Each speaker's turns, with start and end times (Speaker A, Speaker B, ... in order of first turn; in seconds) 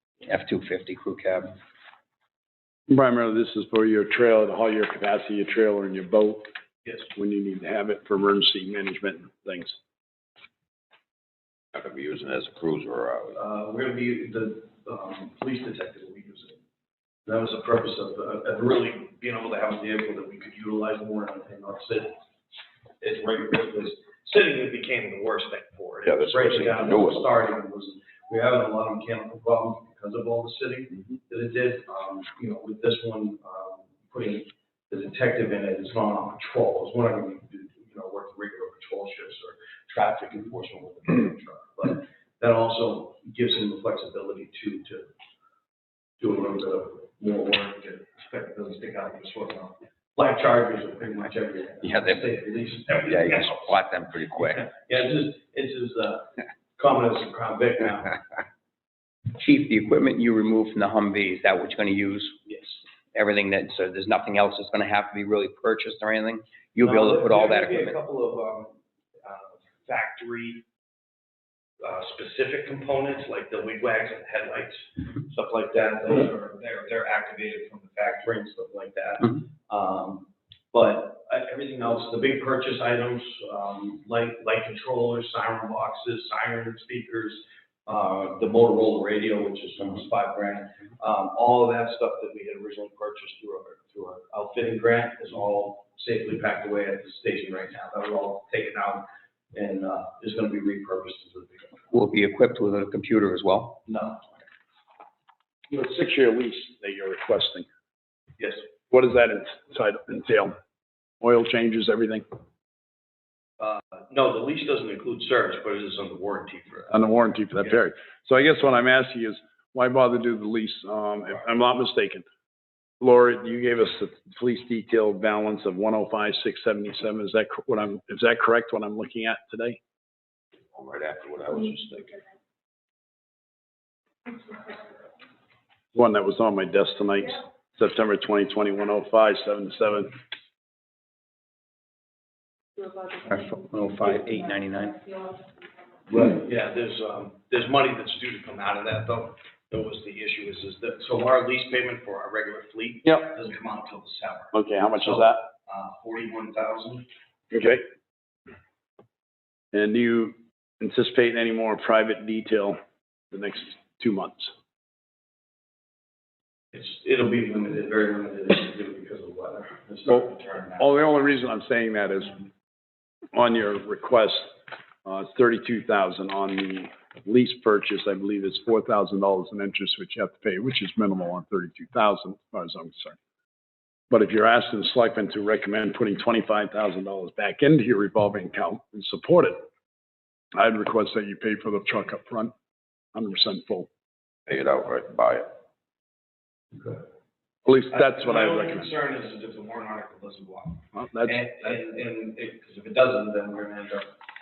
Speaker A: 0.2-1.5, 51.8-52.2, 53.1-54.7, 59.3-62.5, 63.1-68.0, 101.9-103.8, 143.2-145.0
Speaker B: 2.9-6.5, 7.1-9.8, 105.7-107.7, 108.9-110.5, 111.2-112.2, 116.9-122.2, 123.0-129.8, 135.9-140.1, 154.5-155.4, 157.5-157.8, 159.7-162.8, 163.3-164.5, 170.8-172.4, 173.3-183.2, 184.1-189.6, 190.5-192.5, 193.1-193.9, 197.6-198.9, 200.9-201.8
Speaker C: 11.7-13.3, 26.1-27.2, 130.7-132.2, 194.5-195.5
Speaker D: 13.3-16.6, 17.2-22.2, 23.0-45.1, 46.2-53.8, 54.3-58.2, 62.5-62.8, 66.8-70.6, 71.8-101.8, 103.9-104.2, 108.4-108.6, 113.6-117.0, 146.1-157.1, 166.7-170.9, 196.7-197.0, 197.9-204.2